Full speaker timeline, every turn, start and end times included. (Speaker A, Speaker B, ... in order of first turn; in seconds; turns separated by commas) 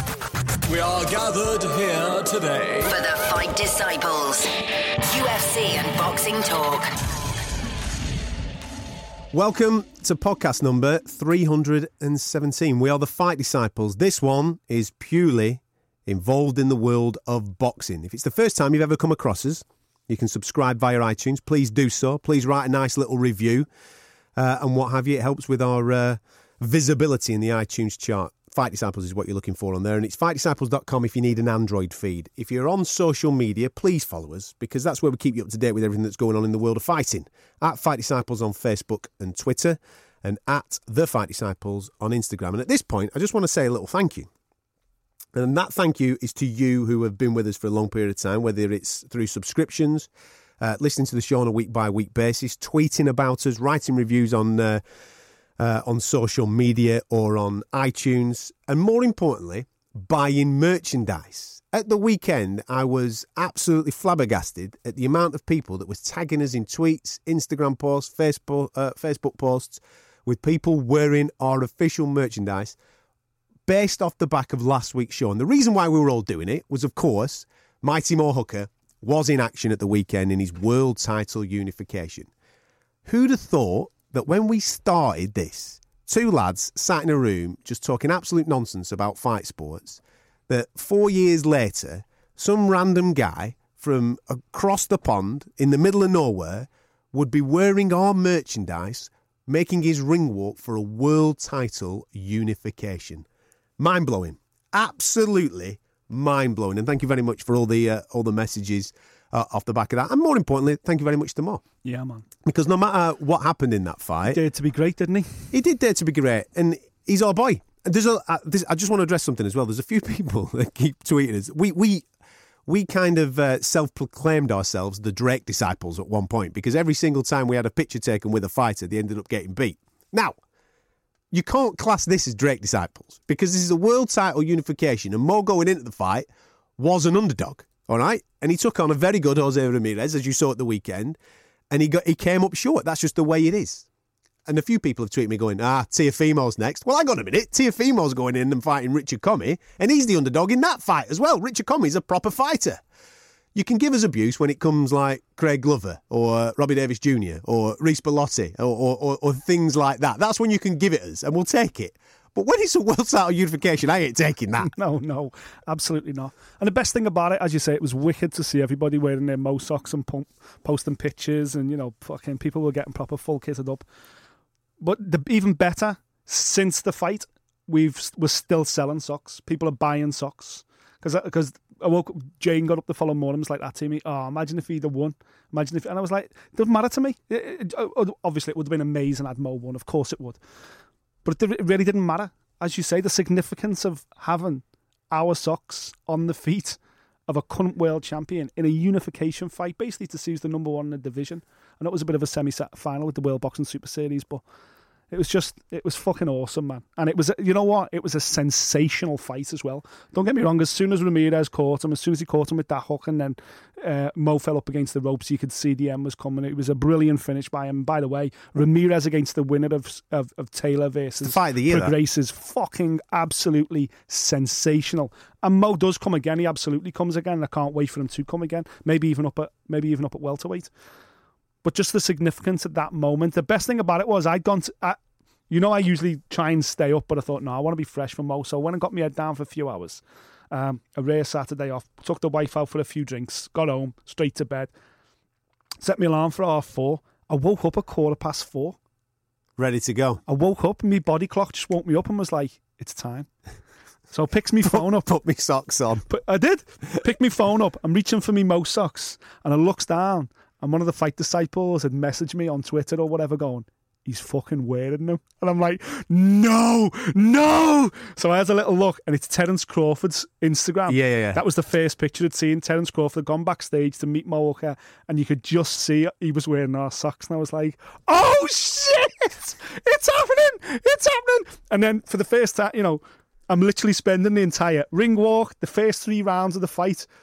Speaker A: 0.7-3.0, Speaker B: 2.9-4.5, Speaker B: 5.0-6.9, Speaker C: 9.3-23.7, Speaker C: 24.4-44.3, Speaker C: 45.3-50.1, Speaker C: 50.6-54.8, Speaker C: 55.6-72.8, Speaker C: 73.7-82.3, Speaker C: 83.1-103.3, Speaker C: 103.8-111.6, Speaker D: 111.8-112.3, Speaker C: 112.4-114.4, Speaker D: 114.2-115.5, Speaker C: 115.5-122.1, Speaker C: 122.7-130.4, Speaker C: 131.3-136.3, Speaker C: 136.8-141.2, Speaker C: 141.7-143.8, Speaker C: 144.5-152.8, Speaker C: 153.6-164.7, Speaker D: 164.6-173.8, Speaker D: 174.8-190.4, Speaker D: 191.2-204.4, Speaker D: 205.1-230.7, Speaker C: 221.2-221.9, Speaker D: 231.6-244.7, Speaker D: 245.8-248.8, Speaker C: 249.6-250.2, Speaker D: 250.3-253.3, Speaker D: 254.1-255.1, Speaker C: 254.7-256.1, Speaker D: 256.1-287.1, Speaker C: 270.9-271.4